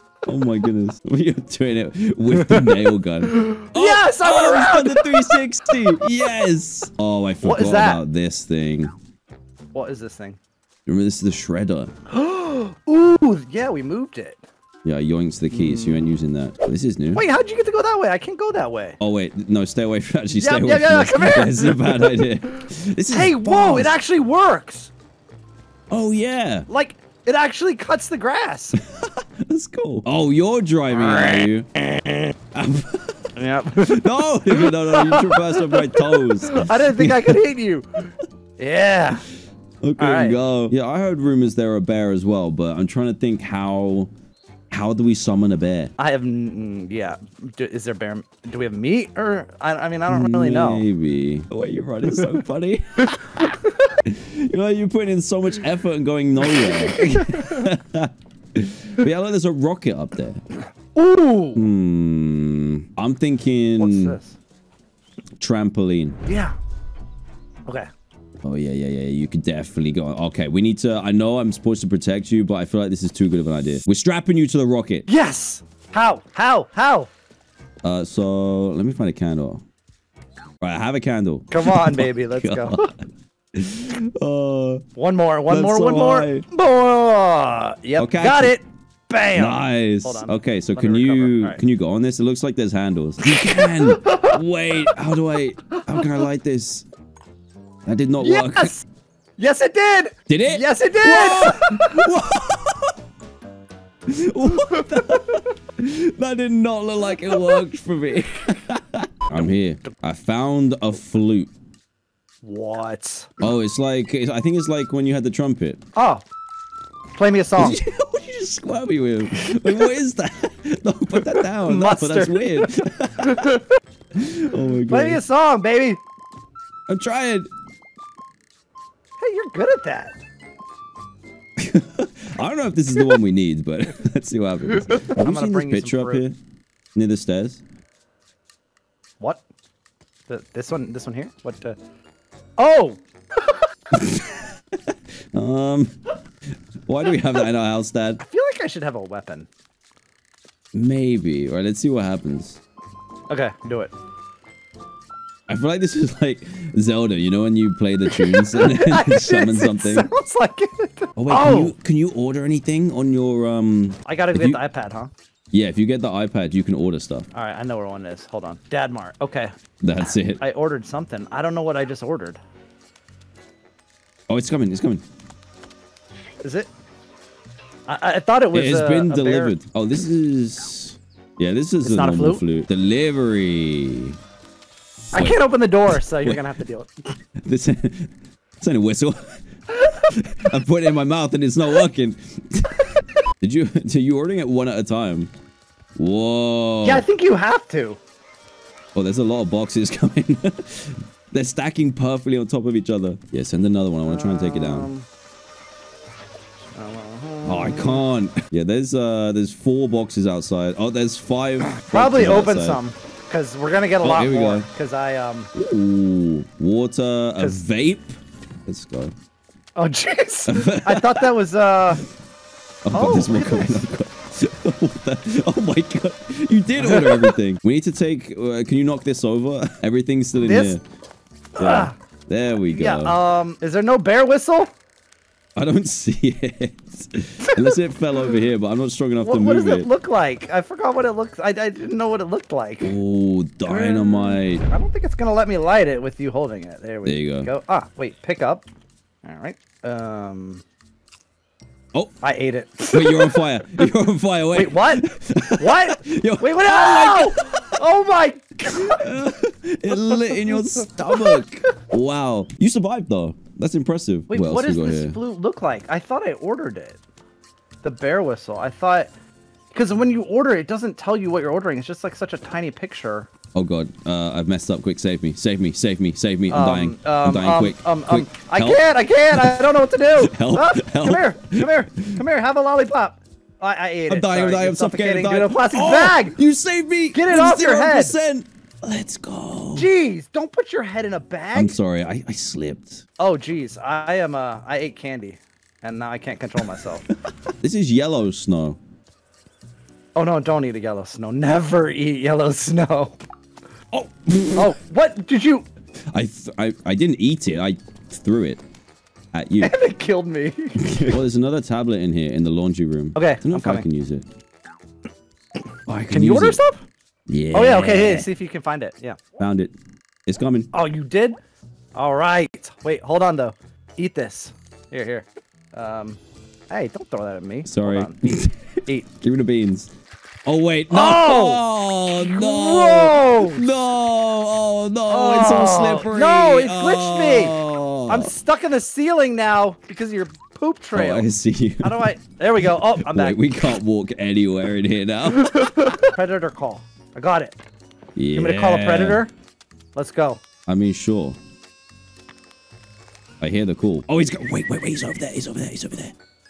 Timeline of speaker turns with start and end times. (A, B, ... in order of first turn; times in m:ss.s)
0:00.3-0:08.9 A
0:02.3-0:05.4 B
0:07.4-0:08.0 B
0:09.7-0:10.4 B
0:10.9-0:11.9 A
0:12.1-0:14.4 B
0:14.8-0:17.2 A
0:15.5-0:16.1 B
0:17.1-0:19.0 B
0:19.0-0:24.0 A
0:20.3-0:22.2 B
0:23.1-0:24.9 B
0:25.9-0:26.7 A
0:26.7-0:28.8 B
0:28.8-0:31.7 A
0:30.9-0:32.3 B
0:32.5-0:37.4 A
0:33.4-0:39.2 B
0:39.8-0:44.1 A
0:40.0-0:40.4 B
0:44.7-0:45.9 A
0:46.0-0:50.8 B
0:50.1-1:00.4 A
0:52.1-0:52.4 B
0:56.4-0:57.7 B
1:01.0-1:01.6 B
1:01.6-1:04.2 A
1:03.8-1:04.4 B
1:05.4-1:06.2 A
1:06.3-1:06.6 B
1:08.4-1:15.1 A
1:15.1-1:17.1 B
1:17.8-1:19.6 A
1:20.6-1:22.9 A
1:21.5-1:22.9 B
1:23.6-1:24.8 A
1:25.0-1:31.6 B
1:25.5-1:26.4 A
1:28.0-1:28.6 A
1:29.3-1:36.8 A
1:33.2-1:34.4 B
1:35.8-1:36.1 B
1:37.9-1:38.8 A
1:38.2-1:38.8 B
1:39.4-1:42.2 B
1:40.3-1:42.9 A
1:44.1-1:51.5 A
1:44.5-1:45.4 B
1:49.4-1:50.0 B
1:52.4-1:53.4 B
1:53.4-1:55.8 A
1:56.0-1:56.2 B
1:57.2-1:57.8 B
1:57.6-2:03.6 A
2:01.2-2:02.7 B
2:03.2-2:03.7 B
2:04.2-2:05.2 A
2:04.9-2:06.0 B
2:06.9-2:07.5 A
2:09.2-2:10.2 B
2:11.6-2:16.4 A
2:14.8-2:16.2 B
2:17.0-2:17.6 A
2:20.3-2:21.8 B
2:22.6-2:23.7 B
2:23.9-2:26.0 A
2:26.9-2:28.2 A
2:28.2-2:29.5 B
2:30.7-2:32.6 A
2:33.3-2:33.9 B
2:35.5-2:40.1 A
2:38.1-2:41.8 B
2:41.2-2:44.6 A
2:44.1-2:45.1 B
2:45.5-2:47.3 A
2:47.3-2:49.6 B
2:49.8-2:50.4 A
2:50.4-2:52.4 B
2:54.3-2:55.0 A
2:56.4-2:56.7 B
2:57.9-2:59.6 B
2:58.5-3:04.2 A
3:01.8-3:02.4 B
3:05.1-3:06.4 A
3:05.1-3:06.9 B
3:07.4-3:12.8 A
3:09.8-3:10.0 B
3:13.4-3:15.3 A
3:16.0-3:17.0 A
3:16.8-3:18.0 B
3:19.0-3:24.9 A
3:24.1-3:25.1 B
3:26.8-3:28.0 B
3:27.4-3:32.8 A
3:31.7-3:35.5 B
3:34.0-3:34.7 A
3:35.5-3:39.1 A
3:39.8-3:42.0 B
3:40.5-3:41.3 A
3:42.8-3:50.8 A
3:42.9-3:43.8 B
3:46.8-3:47.4 B
3:50.4-3:50.8 B
3:51.6-3:52.0 B
3:51.6-3:53.2 A
3:52.7-3:54.7 B
3:55.6-3:59.9 A
3:59.2-4:02.9 B
4:02.8-4:04.6 A
4:03.6-4:08.6 B
4:07.0-4:07.5 A
4:09.2-4:10.6 B
4:12.2-4:13.9 B
4:12.9-4:17.8 A
4:14.5-4:15.0 B
4:15.6-4:19.2 B
4:18.7-4:25.2 A
4:19.9-4:21.4 B
4:24.3-4:27.0 B
4:27.8-4:29.1 B
4:29.7-4:33.3 B
4:33.5-4:42.2 A
4:36.5-4:46.4 B
4:44.1-4:49.9 A
4:47.1-4:48.2 B
4:49.8-4:51.8 B
4:51.5-4:53.1 A
4:53.2-4:57.0 B
4:57.6-4:58.8 A
5:00.2-5:03.2 B
5:03.9-5:04.7 A
5:04.6-5:05.7 B
5:06.1-5:08.6 A
5:09.3-5:09.8 A
5:09.6-5:11.2 B
5:10.8-5:14.3 A
5:13.2-5:13.8 B
5:15.9-5:16.6 A
5:16.1-5:16.8 B
5:17.3-5:18.3 A
5:17.5-5:19.2 B
5:19.4-5:19.7 A
5:20.3-5:20.7 A
5:20.7-5:21.4 B
5:22.0-5:29.1 B
5:27.6-5:29.9 A
5:30.5-5:38.3 A
5:30.9-5:33.7 B
5:35.1-5:37.6 B
5:38.1-5:41.3 B
5:41.0-5:45.7 A
5:41.8-5:43.7 B
5:45.3-5:47.6 B
5:48.2-5:49.2 A
5:48.4-5:49.3 B
5:50.0-5:50.4 B
5:50.7-5:51.4 A
5:53.4-5:56.1 A